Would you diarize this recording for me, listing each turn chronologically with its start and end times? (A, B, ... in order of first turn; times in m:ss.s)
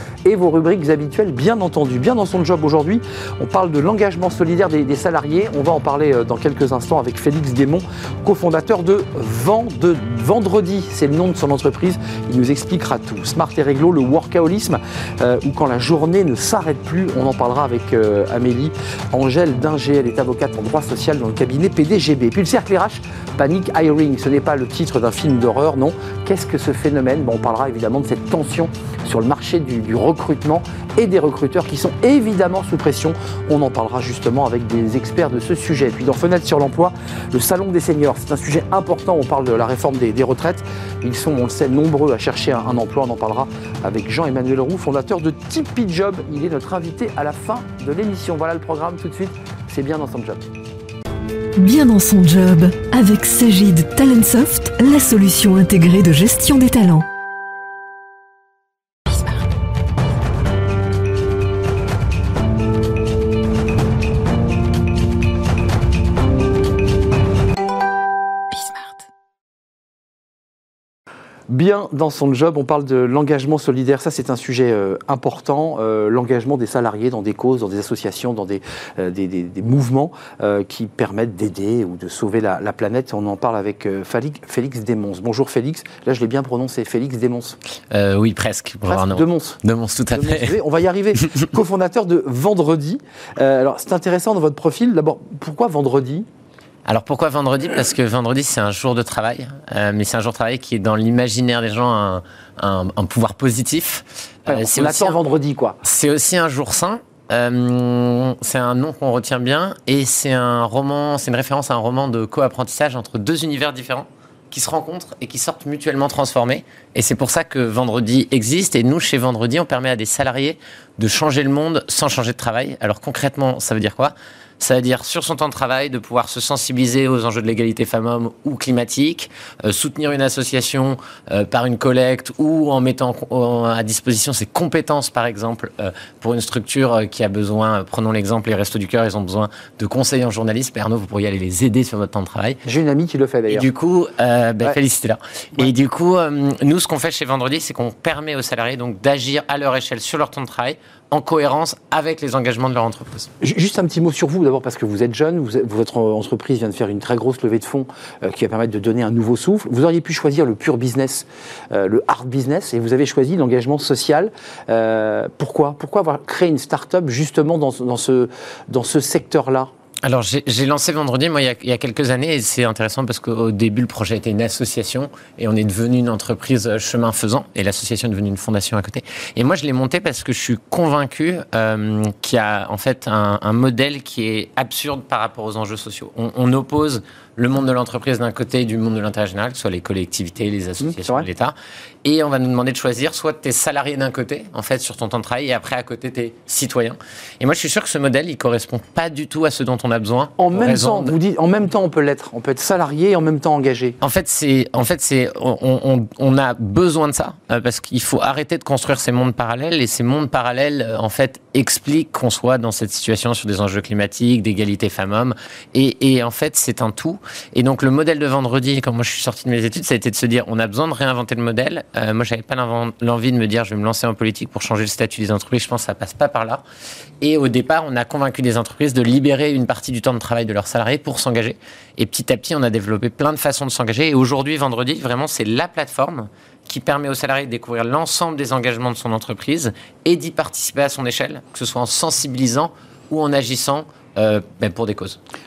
0:00.2-0:50.5 A
0:51.6-0:57.1 B
1:11.5-1:27.6 A
1:27.9-1:30.6 C
1:28.9-1:29.6 A
1:30.1-1:36.3 A
1:36.9-1:45.2 C
1:44.5-1:45.8 A
1:45.8-2:22.6 C
2:22.6-2:23.7 A
2:23.5-2:33.3 C
2:33.4-2:49.7 A
2:50.0-3:21.2 C
3:10.8-3:11.3 A
3:20.4-3:24.0 A
3:24.0-3:46.6 C
3:47.2-4:05.2 C